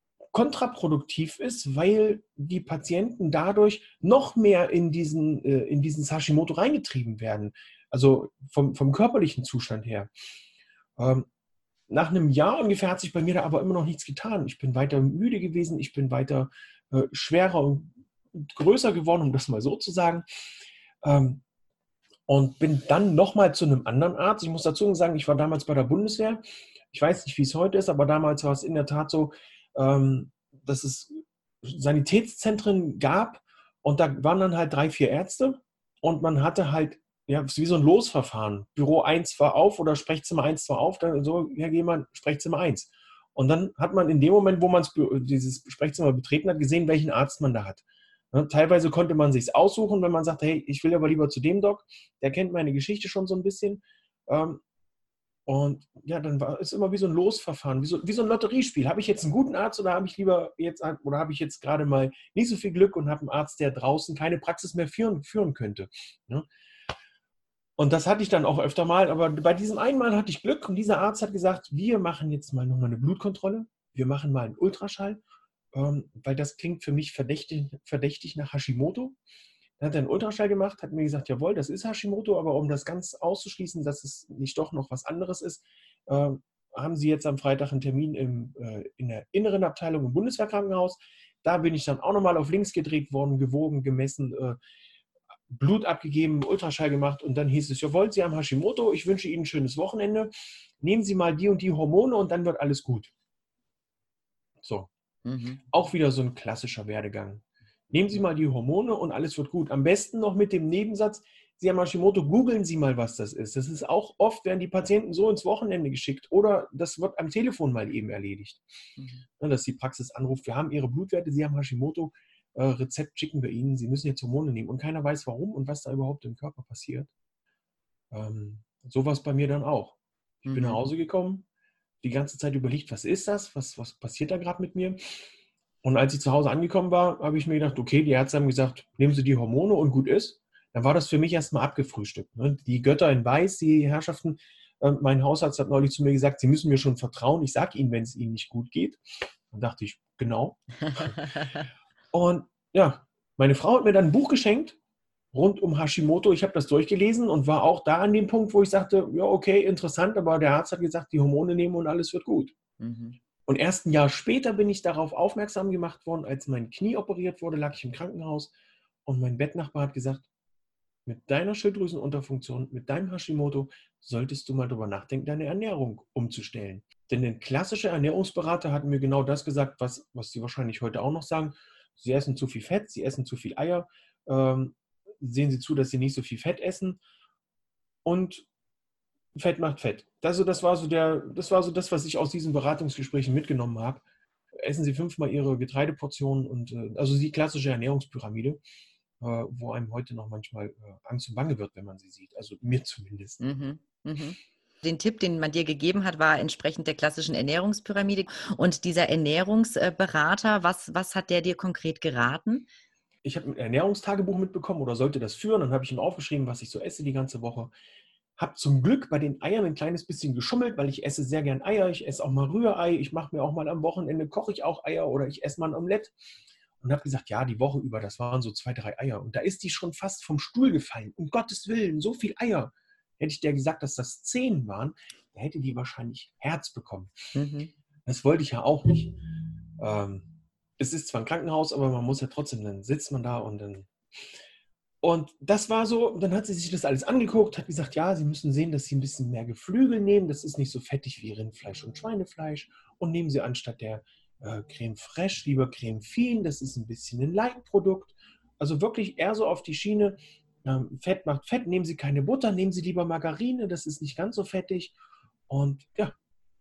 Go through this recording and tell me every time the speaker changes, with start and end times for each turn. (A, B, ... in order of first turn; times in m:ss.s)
0:00.3-0:10.1 A
0:11.0-0:11.3 A
0:11.9-0:20.3 A
0:21.0-0:21.4 A
0:22.3-0:54.6 A
0:55.5-1:06.5 A
1:07.8-1:15.2 A
1:15.7-1:19.2 A
1:19.8-1:34.6 A
1:35.5-1:43.1 A
1:44.6-1:44.9 A
1:45.2-1:45.6 B
1:45.7-1:58.6 A
1:59.0-1:59.2 B
1:59.4-2:07.1 A
2:08.1-2:11.5 A
2:10.5-2:10.8 B
2:12.0-2:15.0 A
2:15.8-2:31.2 A
2:30.8-2:31.6 B
2:32.1-2:34.8 A
2:35.3-2:42.5 A
2:42.8-2:43.2 B
2:43.5-2:48.5 A
2:49.1-2:50.3 A
2:51.1-3:07.0 A
3:08.0-3:08.5 A
3:09.4-3:14.0 A
3:14.6-3:18.6 A
3:19.2-3:23.4 A
3:23.4-3:32.7 B
3:33.2-3:37.7 A
3:38.4-3:46.2 A
3:46.8-3:57.2 A
3:57.4-3:57.7 B
3:58.1-3:59.2 A
3:59.8-4:03.9 A
4:05.0-4:25.0 A
4:25.5-4:26.2 A